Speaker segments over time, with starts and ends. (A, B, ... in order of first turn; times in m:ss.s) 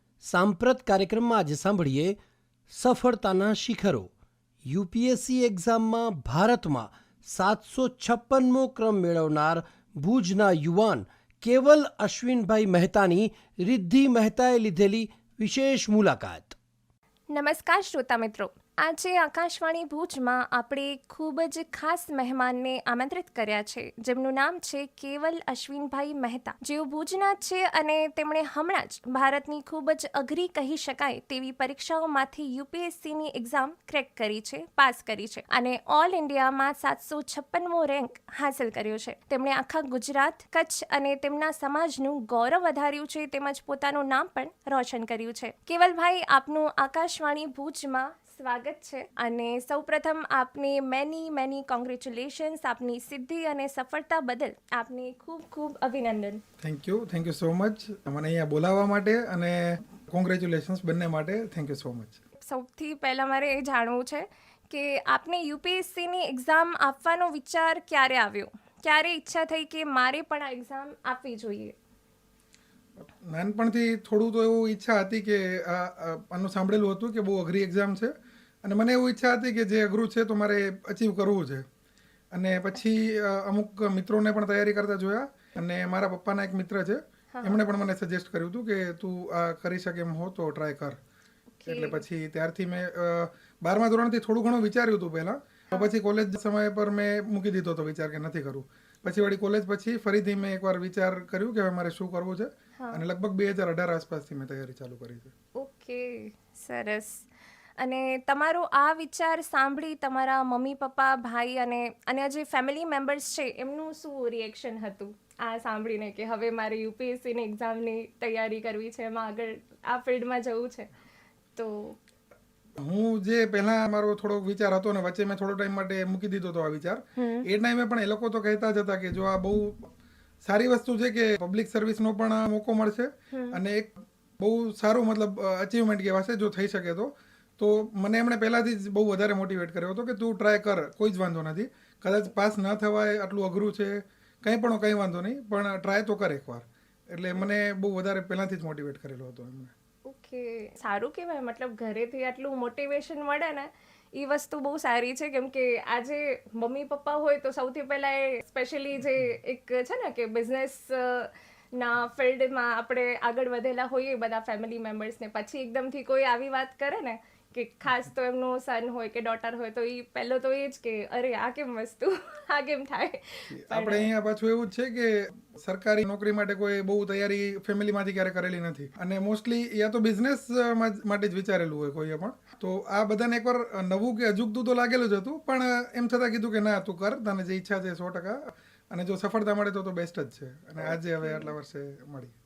0:00.2-0:02.2 A
0:02.7-0:04.1 A
0:04.6-0:16.6 A
0:17.3-0:56.4 B
0:56.6-1:02.2 C
1:02.4-1:11.8 B
1:13.0-1:18.1 C
1:18.6-1:21.6 C
1:22.3-1:31.0 C
1:27.3-1:27.6 B
1:31.6-1:32.0 B
1:31.7-1:45.3 C
1:45.6-1:47.3 B
1:47.8-2:00.9 B
2:01.6-2:02.0 B
2:02.8-2:09.9 C
2:07.2-2:07.5 B
2:10.4-2:29.7 C
2:13.3-2:13.6 B
2:30.1-2:54.1 B
2:53.5-3:12.3 C
3:10.8-3:11.5 B